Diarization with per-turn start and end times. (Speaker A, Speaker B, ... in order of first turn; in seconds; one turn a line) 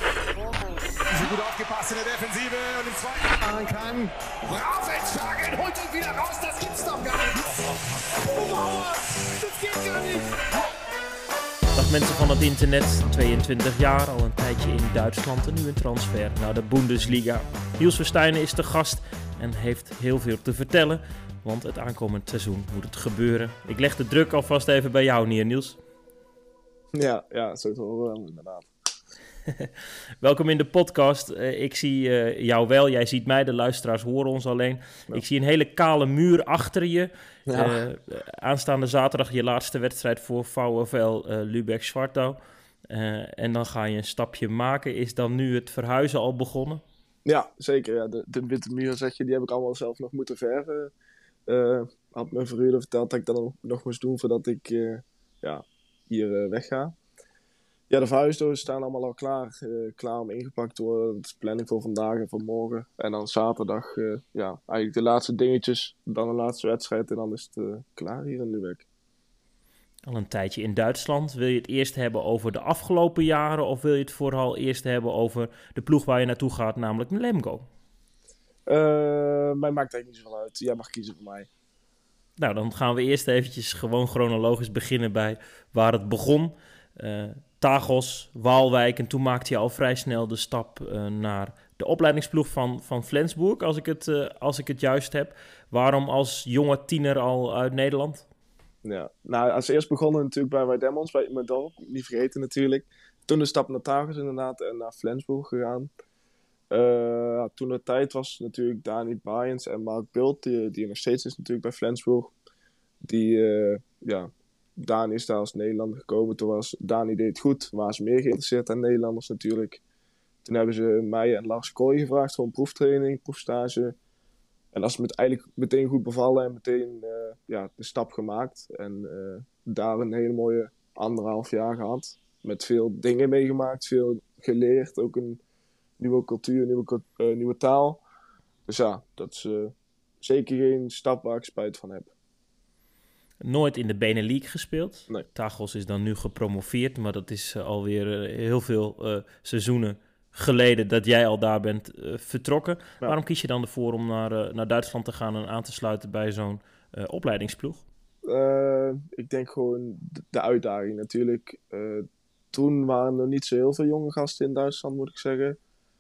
Speaker A: 0.3-10.4
Speaker B: 11.8-25.8
Speaker C: 26.9-28.7
Speaker B: 30.2-42.4
Speaker C: 37.5-37.9
Speaker B: 42.9-46.8
Speaker C: 47.2-50.9
Speaker C: 51.5-57.0
Speaker C: 57.9-68.9
Speaker B: 70.1-77.7
Speaker C: 78.7-81.5
Speaker B: 82.4-98.3
Speaker C: 98.8-105.9
Speaker C: 106.7-112.3
Speaker C: 113.0-119.8
Speaker C: 120.4-124.0
Speaker C: 124.7-135.4
Speaker C: 136.0-138.0
Speaker C: 138.7-142.1
Speaker B: 143.4-157.9
Speaker C: 158.3-165.6